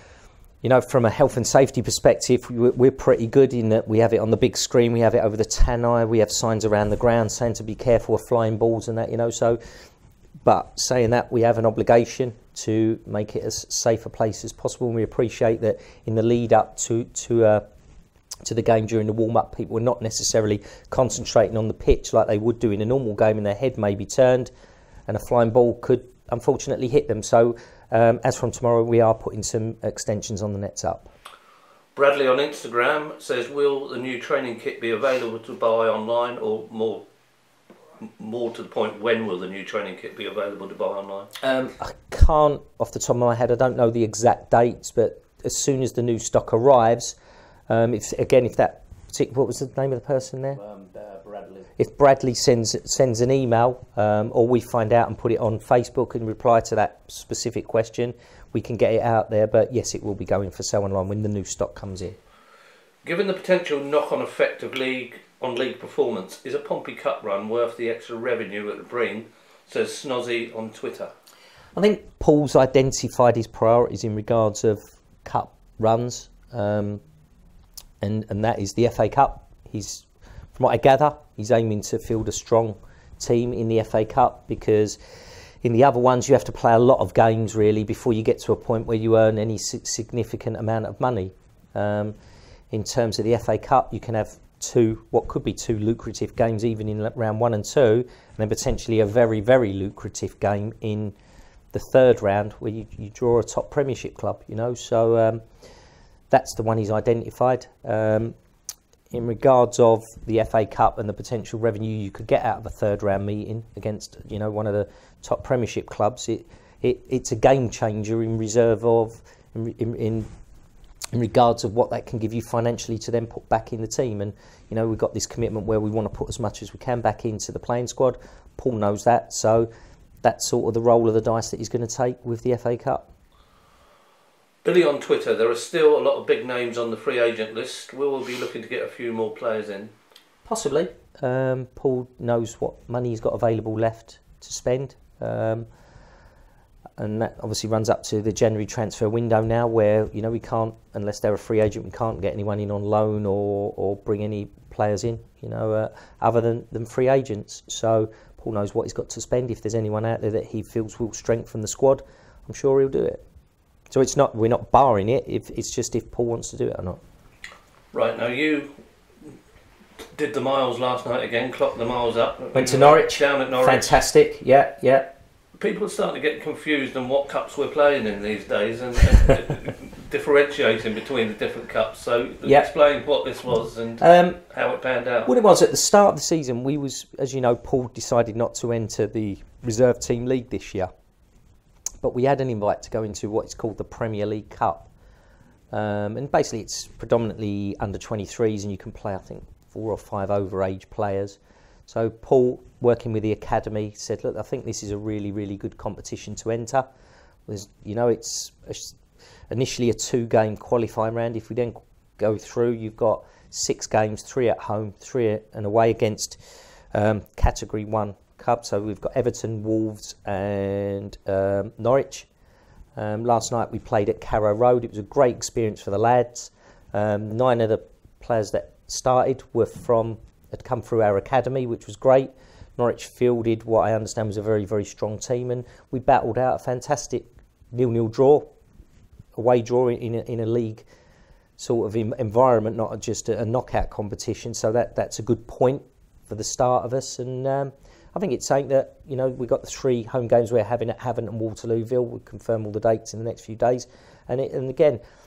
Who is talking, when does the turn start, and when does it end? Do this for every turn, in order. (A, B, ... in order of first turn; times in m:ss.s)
0:00.6-0:09.6 A
0:10.4-0:17.6 A
0:18.4-0:24.5 A
0:25.1-0:31.1 A
0:31.9-0:37.0 B
0:38.0-0:41.3 B
0:41.4-0:47.2 A
0:47.7-0:50.6 A
0:50.6-0:51.6 B
0:51.8-1:02.2 A
1:03.0-1:11.1 B
1:11.7-1:17.0 A
1:18.0-1:25.0 A
1:25.6-1:32.1 A
1:32.7-1:41.1 A
1:41.7-1:45.4 A
1:46.3-1:48.3 A
1:49.1-2:00.3 A
2:01.1-2:09.7 A
2:10.2-2:13.1 A
2:14.6-2:19.9 B
2:20.4-2:25.6 A
2:27.0-2:43.2 A
2:43.9-2:47.0 A
2:47.9-2:48.7 B
2:50.1-2:54.0 B
2:52.5-2:55.1 A
2:55.6-3:05.3 B
3:04.0-3:04.4 A
3:05.2-3:10.9 A
3:12.0-3:14.9 A
3:15.7-3:26.9 A
3:27.5-3:29.0 A
3:29.5-3:36.4 A
3:36.9-3:42.3 A
3:43.0-3:58.5 A
3:59.4-4:00.8 A
4:01.6-4:15.0 A